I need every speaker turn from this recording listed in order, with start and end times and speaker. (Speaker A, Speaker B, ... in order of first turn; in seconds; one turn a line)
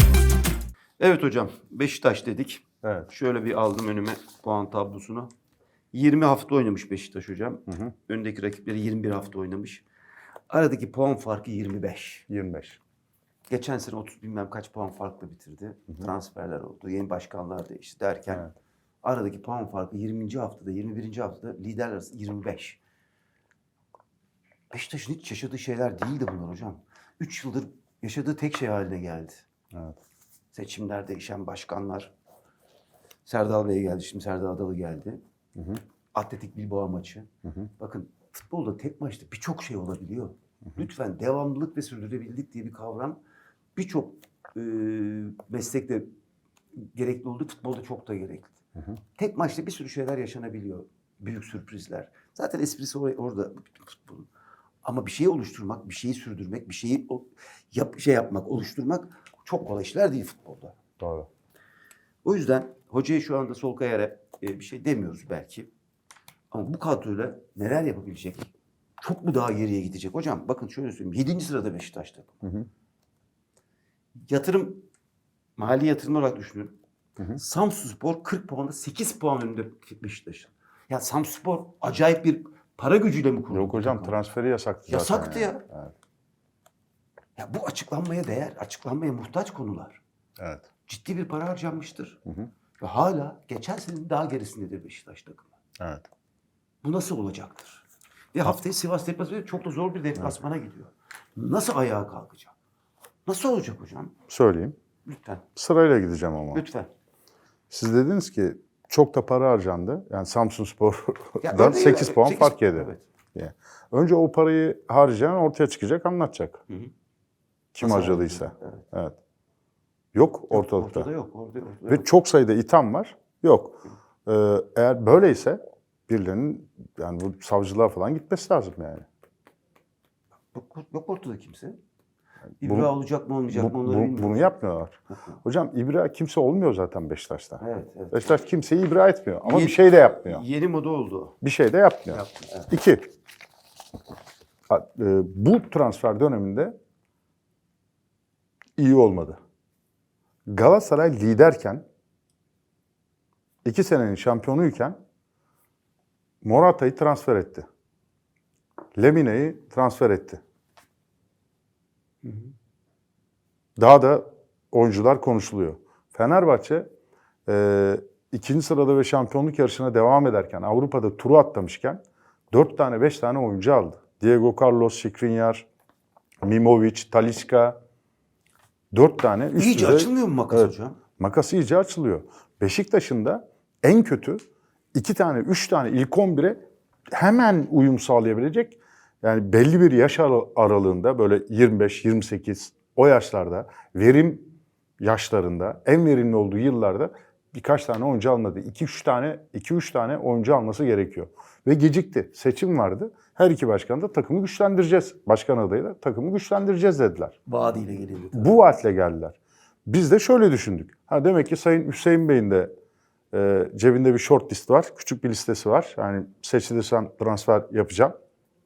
Speaker A: 1.0-5.3
Speaker B: 2.8-3.1
Speaker A: 5.9-9.8
Speaker B: 7.7-7.9
Speaker A: 10.5-12.2
Speaker B: 12.3-12.8
Speaker A: 13.5-18.5
Speaker B: 18.3-18.5
Speaker A: 19.0-22.8
Speaker A: 24.7-29.4
Speaker B: 29.7-30.0
Speaker A: 30.5-32.1
Speaker A: 33.2-35.2
Speaker A: 36.1-43.2
Speaker B: 37.4-37.7
Speaker A: 43.7-46.1
Speaker A: 46.7-48.5
Speaker A: 49.1-54.3
Speaker A: 54.8-60.8
Speaker B: 61.0-61.3
Speaker A: 62.2-65.7
Speaker A: 66.5-72.4
Speaker A: 74.2-74.9
Speaker A: 75.6-76.8
Speaker A: 77.3-84.2
Speaker B: 83.5-85.9
Speaker A: 84.9-85.6
Speaker A: 87.4-90.0
Speaker B: 90.4-90.7
Speaker A: 90.9-92.2
Speaker A: 92.8-95.5
Speaker B: 95.8-96.1
Speaker A: 96.8-97.8
Speaker A: 98.3-102.5
Speaker A: 103.2-104.1
Speaker B: 104.3-104.7
Speaker A: 105.0-105.4
Speaker B: 105.5-106.6
Speaker A: 106.5-106.9
Speaker B: 107.7-116.6
Speaker A: 111.4-113.0
Speaker B: 117.7-119.2
Speaker A: 117.8-118.8
Speaker B: 120.1-121.1
Speaker A: 120.5-122.1
Speaker B: 121.9-129.1
Speaker A: 130.5-131.8
Speaker B: 132.6-132.9
Speaker A: 132.6-134.5
Speaker B: 133.5-140.4
Speaker A: 137.6-138.3
Speaker A: 139.4-141.3
Speaker B: 141.4-143.1
Speaker A: 142.1-142.7
Speaker B: 144.7-146.7
Speaker B: 148.8-149.4
Speaker B: 150.5-151.8
Speaker B: 153.6-155.0
Speaker B: 156.4-157.7
Speaker B: 159.0-160.4
Speaker B: 163.8-166.9
Speaker B: 167.4-175.7
Speaker B: 176.4-177.8
Speaker B: 178.9-186.6
Speaker A: 179.6-181.0
Speaker B: 187.1-194.5
Speaker B: 195.0-207.3
Speaker A: 207.4-208.6
Speaker B: 208.3-212.7
Speaker B: 213.3-218.1